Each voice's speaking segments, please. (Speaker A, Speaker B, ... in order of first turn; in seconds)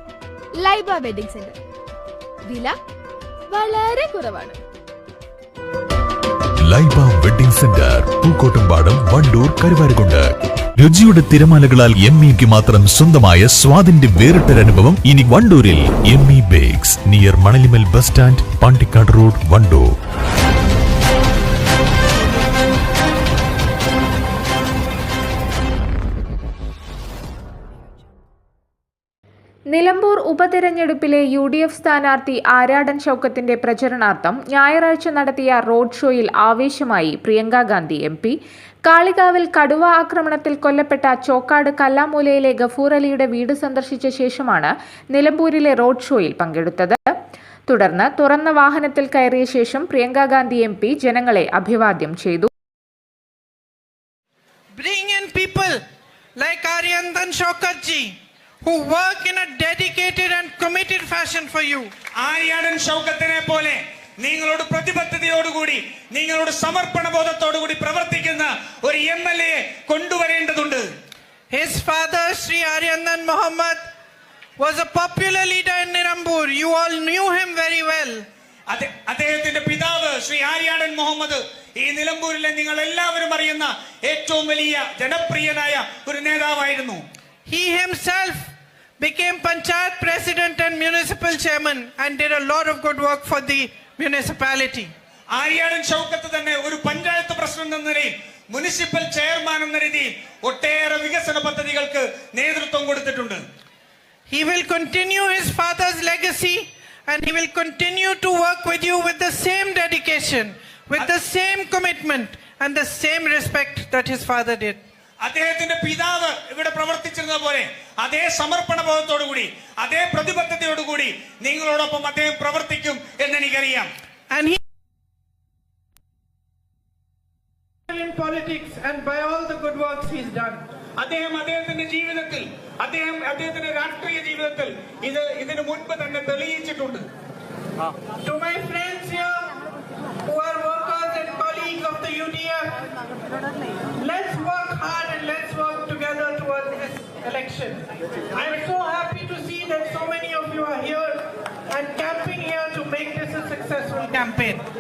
Speaker A: 0.6-1.6, 2.5-2.8, 3.5-4.6
Speaker B: 6.6-19.9
Speaker C: 29.7-38.4, 38.9-47.0, 47.7-52.5
Speaker D: 54.7-55.8, 56.4-61.9, 71.5-73.9, 74.6-78.2, 87.5-94.9, 104.3-114.8, 124.3-124.6, 127.9-130.6, 138.2-139.5, 140.2-142.7, 144.0-154.6
Speaker E: 62.2-70.9, 78.7-87.0, 95.3-103.4, 115.2-123.9, 131.0-137.1